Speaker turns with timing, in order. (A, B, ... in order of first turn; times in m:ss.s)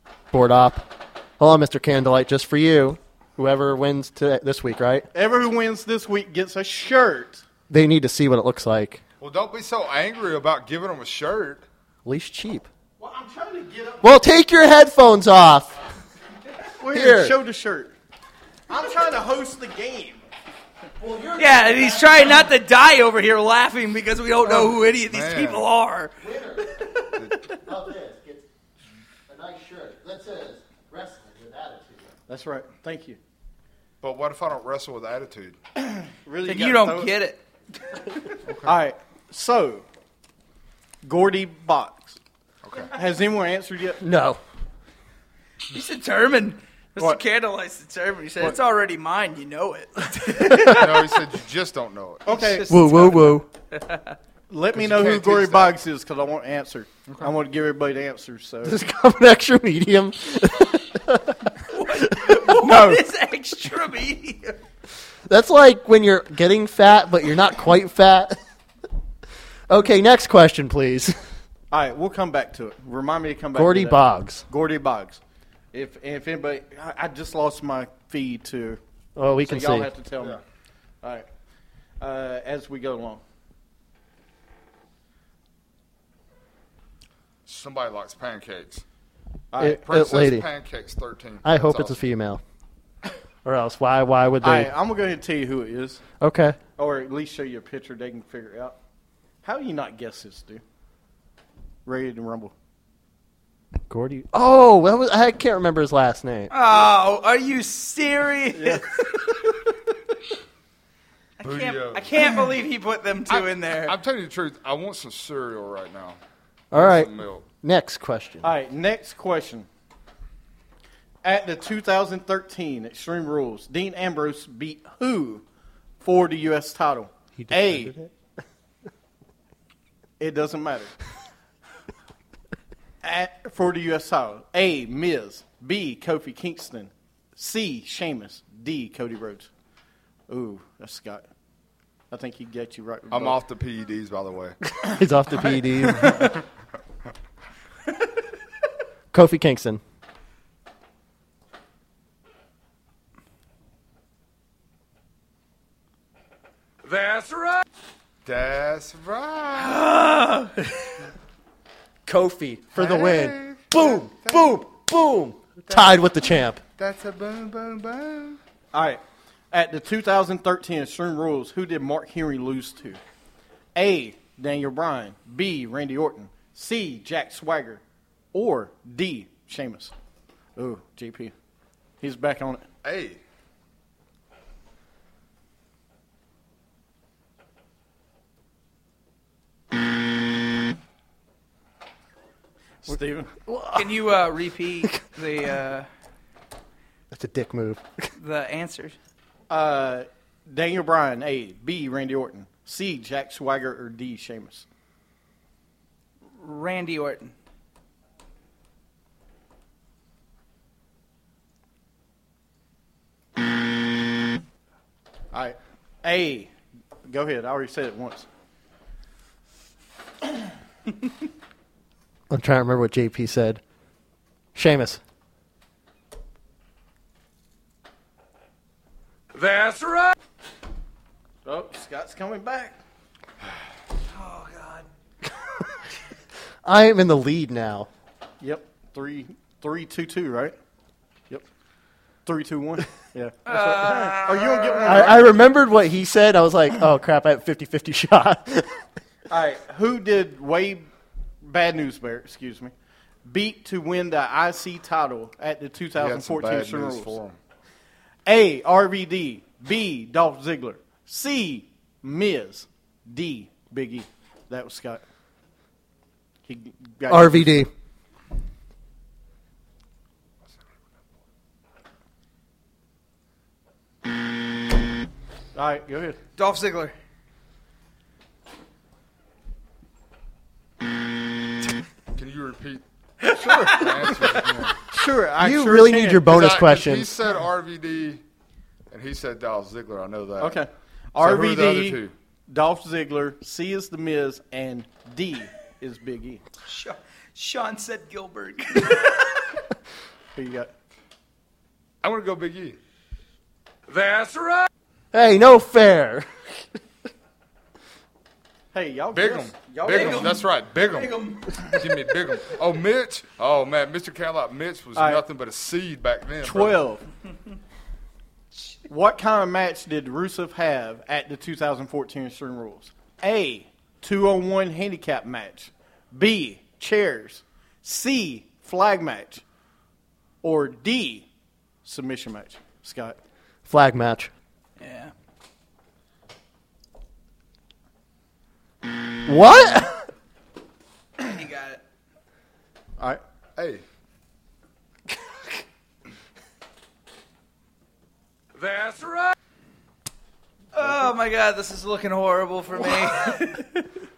0:00.3-0:05.1 A
0:05.1-0:07.4 B
0:07.7-0:09.0 A
0:09.2-0:11.6 C
0:12.0-0:12.7 A
0:13.0-0:14.1 B
0:14.0-0:15.7 A
0:16.8-0:17.9 B
0:16.9-0:17.4 A
0:18.7-0:20.2 B
0:21.0-0:22.5 A
0:21.4-0:27.1 D
0:24.9-0:25.7 C
0:26.2-0:26.7 A
0:27.5-0:28.5 A
0:29.3-0:32.1 A
0:32.3-0:33.2 B
0:34.0-0:35.6 C
0:36.0-0:37.1 B
0:36.5-0:38.1 D
0:38.5-0:38.8 C
0:38.6-0:39.8 B
0:41.0-0:42.2 B
0:42.6-0:42.9 C
0:42.9-0:44.0 B
0:44.0-0:44.4 A
0:45.7-0:51.2 D
0:50.6-0:52.3 C
0:52.2-0:52.7 B
0:52.3-0:54.2 D
0:52.7-0:53.5 A
0:54.5-0:58.8 B
0:54.7-0:55.8 C
0:58.6-1:02.7 A
1:01.7-1:04.6 D
1:02.5-1:03.0 B
1:05.3-1:08.4 A
1:09.7-1:11.2 A
1:11.7-1:15.2 B
1:13.6-1:14.4 A
1:15.7-1:18.8 B
1:19.2-1:19.9 A
1:19.4-1:20.4 B
1:21.0-1:21.3 B
1:22.0-1:23.2 B
1:27.5-1:28.8 C
1:29.5-1:29.8 B
1:29.6-1:30.5 A
1:29.8-1:32.0 C
1:31.4-1:32.4 A
1:33.4-1:34.7 A
1:34.4-1:36.0 B
1:36.2-1:36.6 A
1:36.8-1:38.8 B
1:39.4-1:40.6 B
1:41.9-1:42.5 B
1:43.9-1:46.5 A
1:46.5-1:49.1 D
1:48.5-1:49.1 B
1:51.4-1:54.0 D
1:51.4-1:52.1 C
1:53.3-1:56.2 C
1:56.7-1:58.5 A
1:56.7-1:57.4 C
1:58.4-1:59.7 B
2:01.2-2:05.4 B
2:06.0-2:08.0 B
2:07.4-2:08.1 A
2:10.2-2:10.9 B
2:13.0-2:19.5 B
2:20.3-2:21.3 B
2:22.1-2:23.4 B
2:23.1-2:24.6 C
2:24.8-2:26.3 A
2:26.0-2:26.3 B
2:29.1-2:29.8 A
2:36.8-2:37.6 E
2:38.2-2:39.9 C
2:39.6-2:41.0 D
2:42.1-2:46.6 A
2:42.8-2:44.6 C
2:45.6-2:48.4 C
2:48.7-2:53.0 B
2:53.8-2:57.8 B
2:58.3-2:59.9 B
3:00.6-3:01.3 B
3:02.0-3:02.6 B
3:02.8-3:03.2 C
3:12.8-3:13.3 B
3:13.5-3:14.0 A
3:13.8-3:15.9 D
3:17.1-3:18.1 A
3:18.2-3:19.0 D
3:19.5-3:24.6 B
3:26.4-3:27.3 D
3:35.3-3:36.5 B
3:37.1-3:38.3 B
3:42.3-3:43.6 A
3:44.6-3:45.0 A
3:49.3-3:50.1 E
3:51.4-3:52.8 B
3:54.1-3:54.9 D
3:56.6-3:57.9 A
3:58.4-4:00.6 B
4:02.2-4:05.4 B
4:03.5-4:05.0 D
4:04.8-4:08.8 A
4:09.3-4:10.9 B
4:11.4-4:12.7 B
4:13.2-4:17.2 B
4:16.0-4:17.4 C
4:18.3-4:25.0 B
4:26.5-4:27.6 B
4:27.1-4:27.7 A
4:35.6-4:36.2 B
4:36.4-4:36.9 D
4:42.1-4:44.8 C
4:43.3-4:44.0 B
4:44.9-4:46.4 B
4:45.4-4:47.1 A
4:46.2-4:48.2 C
4:48.9-4:50.6 C
4:50.4-4:56.4 B
4:51.2-4:52.1 C
4:56.6-4:59.5 D
5:00.4-5:00.7 B
5:02.0-5:02.8 C
5:03.9-5:04.7 E
5:05.1-5:06.6 A
5:08.7-5:10.4 B
5:09.1-5:16.8 C
5:09.8-5:11.8 D
5:15.0-5:15.2 B
5:16.4-5:17.0 B
5:18.9-5:29.4 B
5:30.4-5:31.3 B
5:31.8-5:33.2 B
5:33.7-5:34.3 A
5:34.8-5:35.1 D
5:39.3-5:40.0 A
5:41.2-5:41.8 D
5:43.6-5:43.8 C
5:48.6-5:49.3 E
5:50.7-5:53.8 D